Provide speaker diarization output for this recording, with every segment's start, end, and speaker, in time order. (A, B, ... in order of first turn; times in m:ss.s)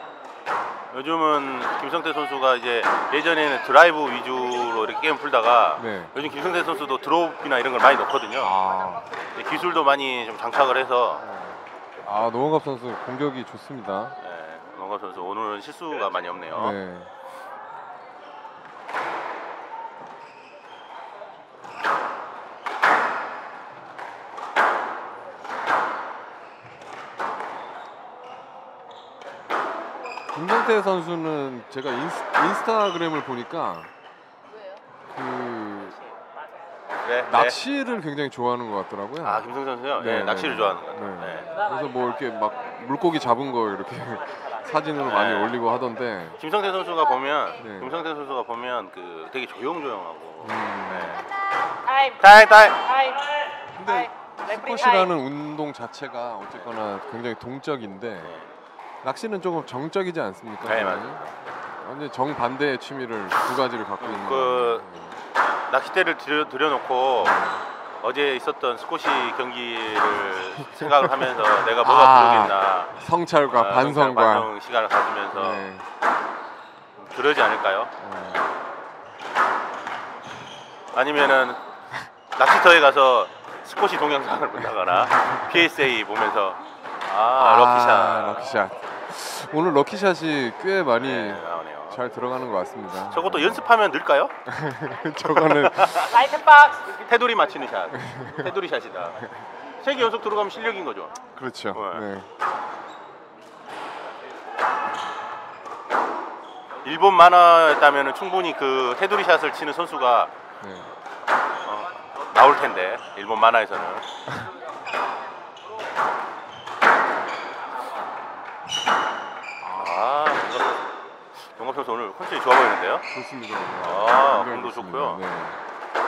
0:00.9-0:08.6 A
0:05.8-0:06.1 B
0:08.4-0:09.1 B
0:09.3-0:11.2 A
0:11.2-0:14.1 B
0:14.2-0:16.8 A
0:16.5-0:17.1 B
0:30.3-0:33.9 B
0:35.1-0:36.0 B
0:37.0-0:37.6 A
0:37.2-0:46.4 B
0:39.2-0:41.6 A
0:45.0-0:45.6 A
0:46.4-0:51.3 A
0:47.6-0:48.0 B
0:50.4-0:51.3 B
0:51.8-0:55.1 C
0:52.2-0:52.9 A
0:53.7-0:58.3 B
0:58.2-0:58.5 A
0:59.0-1:01.2 B
1:00.6-1:01.4 A
1:01.7-1:05.2 B
1:04.0-1:04.8 A
1:05.7-1:07.4 A
1:07.2-1:07.6 B
1:08.0-1:12.9 A
1:11.8-1:14.5 B
1:13.5-1:15.7 A
1:15.3-1:15.8 B
1:17.0-1:17.9 A
1:18.0-1:18.6 B
1:20.9-1:21.6 A
1:22.3-1:28.5 A
1:24.6-1:25.7 B
1:27.4-1:33.6 B
1:30.9-1:32.0 A
1:32.9-1:34.4 A
1:34.5-1:36.0 B
1:35.2-1:36.2 A
1:36.0-1:37.0 C
1:36.9-1:41.1 A
1:37.9-1:38.4 B
1:41.3-1:42.3 B
1:41.7-1:42.0 A
1:46.8-1:50.3 A
1:50.6-1:50.9 B
1:51.6-1:54.1 A
1:59.6-2:00.3 B
1:59.8-2:03.0 A
2:03.1-2:05.6 B
2:03.8-2:05.2 A